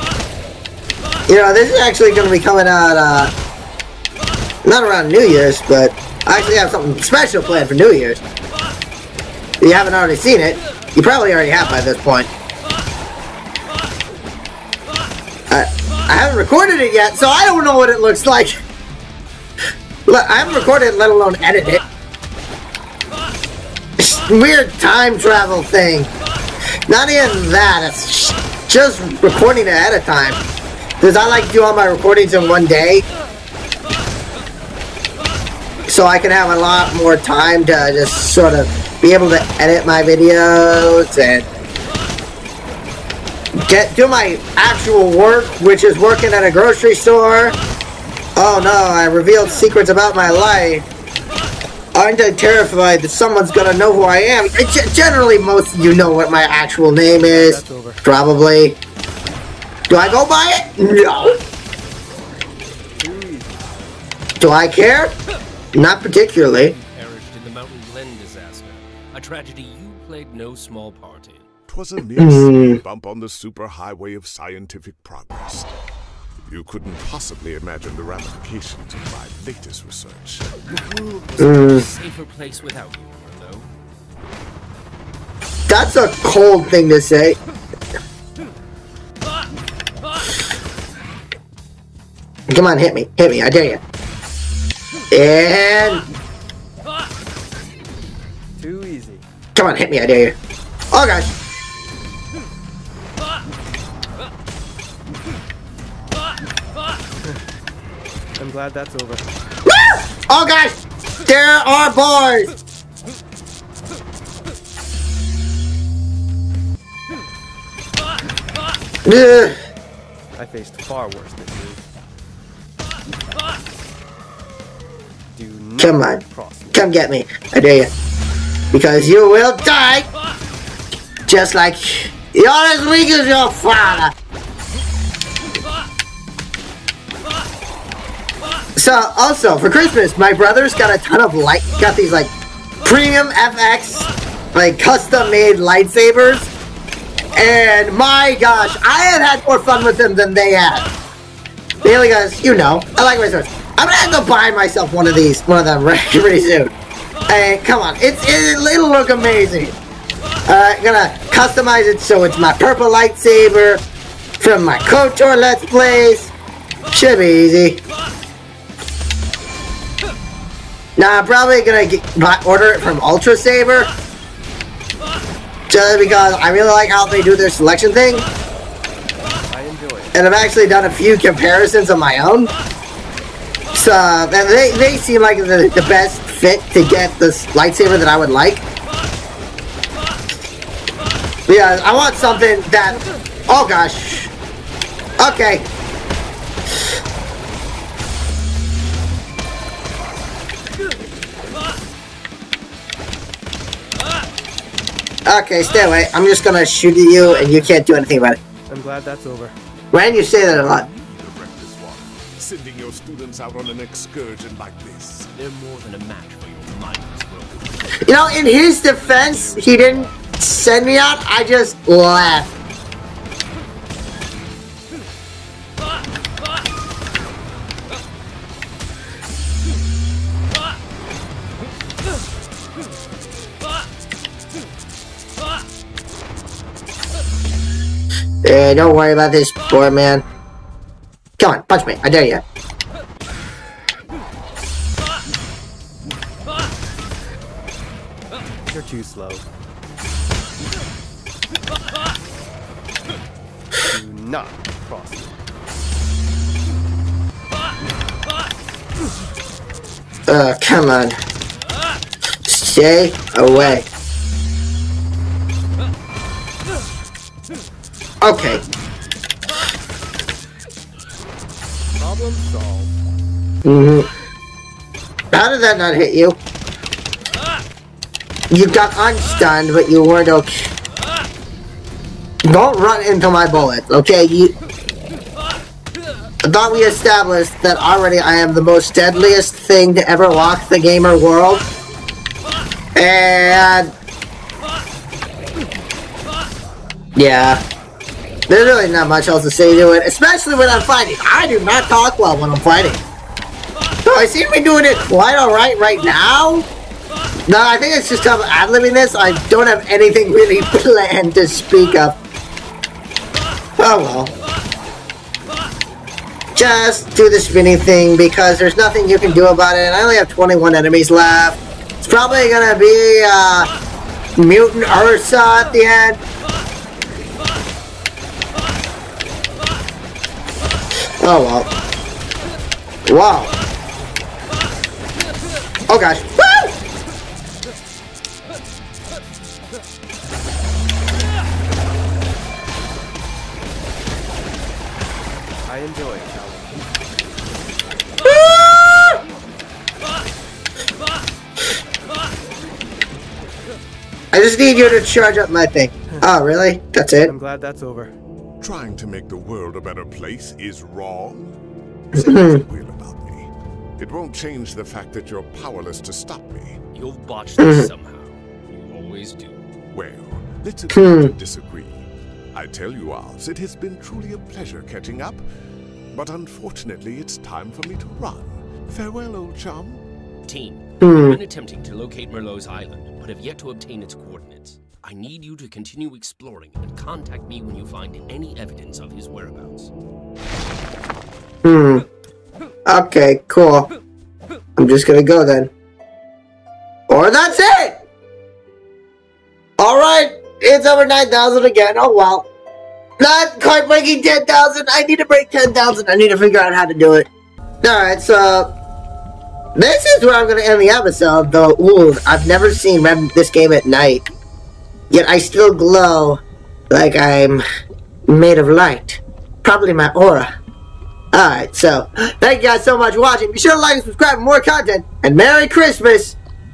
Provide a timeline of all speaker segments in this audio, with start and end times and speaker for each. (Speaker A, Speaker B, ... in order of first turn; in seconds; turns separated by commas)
Speaker A: 1.3-3.3, Speaker A: 4.6-8.2, Speaker A: 9.6-12.3, Speaker A: 15.5-18.6, Speaker A: 20.1-21.8, Speaker A: 24.0-26.1, Speaker A: 26.9-30.4, Speaker A: 31.0-33.0, Speaker A: 35.9-41.5, Speaker A: 43.6-47.6, Speaker A: 48.4-50.9, Speaker A: 52.0-58.8, Speaker B: 57.1-58.0, Speaker A: 59.9-61.4, Speaker B: 63.0-63.7, Speaker A: 64.4-65.2, Speaker A: 65.7-66.8, Speaker C: 66.7-71.5, Speaker D: 71.7-75.7, Speaker A: 72.2-72.8, Speaker D: 76.5-80.5, Speaker C: 80.7-83.7, Speaker A: 81.4-81.8, Speaker A: 85.7-87.4, Speaker A: 92.5-93.8, Speaker A: 95.1-96.1, Speaker B: 98.6-99.2, Speaker A: 99.5-100.4, Speaker A: 100.9-101.3, Speaker B: 108.4-109.2, Speaker A: 109.7-112.5, Speaker A: 119.0-119.6, Speaker B: 120.4-121.8, Speaker B: 125.3-126.8, Speaker A: 125.8-126.2, Speaker A: 126.7-127.9, Speaker A: 128.7-130.1, Speaker A: 131.3-134.1, Speaker A: 138.8-142.3, Speaker A: 142.8-146.5, Speaker A: 147.3-150.9, Speaker A: 151.8-156.7, Speaker A: 157.3-159.7, Speaker A: 160.5-163.8, Speaker A: 164.4-166.3, Speaker A: 166.9-167.8, Speaker A: 171.0-173.9, Speaker A: 175.7-178.2, Speaker B: 179.5-180.1, Speaker A: 180.1-182.5, Speaker A: 183.7-188.6, Speaker A: 191.5-194.3, Speaker A: 195.2-195.7, Speaker A: 205.3-208.4, Speaker B: 208.7-209.6, Speaker A: 209.9-210.9, Speaker D: 210.4-215.3, Speaker C: 215.3-218.2, Speaker A: 218.0-222.5, Speaker C: 218.9-220.1, Speaker A: 238.4-240.2, Speaker A: 241.4-242.4, Speaker B: 248.7-249.4, Speaker B: 253.8-255.3, Speaker A: 260.3-261.2, Speaker A: 262.4-263.9, Speaker A: 268.2-268.6, Speaker B: 272.0-272.9, Speaker A: 273.6-274.1, Speaker A: 275.3-276.4, Speaker A: 278.5-280.7, Speaker A: 282.4-284.6, Speaker A: 286.4-291.6, Speaker A: 292.9-293.9, Speaker A: 297.2-297.6, Speaker A: 298.5-303.0, Speaker A: 304.1-306.7, Speaker A: 307.5-312.2, Speaker A: 313.8-314.3, Speaker A: 316.6-323.7, Speaker A: 324.4-326.2, Speaker A: 331.2-331.7, Speaker A: 333.1-333.5, Speaker A: 335.9-336.7, Speaker B: 345.7-346.9, Speaker A: 348.3-349.2, Speaker A: 354.3-357.3, Speaker B: 357.3-358.1, Speaker D: 358.6-361.6, Speaker A: 362.1-362.6, Speaker D: 362.1-366.8, Speaker C: 366.9-369.6, Speaker A: 367.6-367.9, Speaker D: 369.9-375.4, Speaker A: 370.9-371.3, Speaker D: 376.1-380.0, Speaker C: 380.5-389.9, Speaker A: 381.0-381.4, Speaker A: 391.6-392.1, Speaker A: 392.9-393.9, Speaker A: 394.8-395.7, Speaker A: 397.1-398.0, Speaker A: 399.8-402.5, Speaker A: 403.2-407.3, Speaker A: 407.8-408.7, Speaker A: 409.8-414.3, Speaker A: 415.1-417.6, Speaker A: 418.3-420.5, Speaker A: 421.3-426.4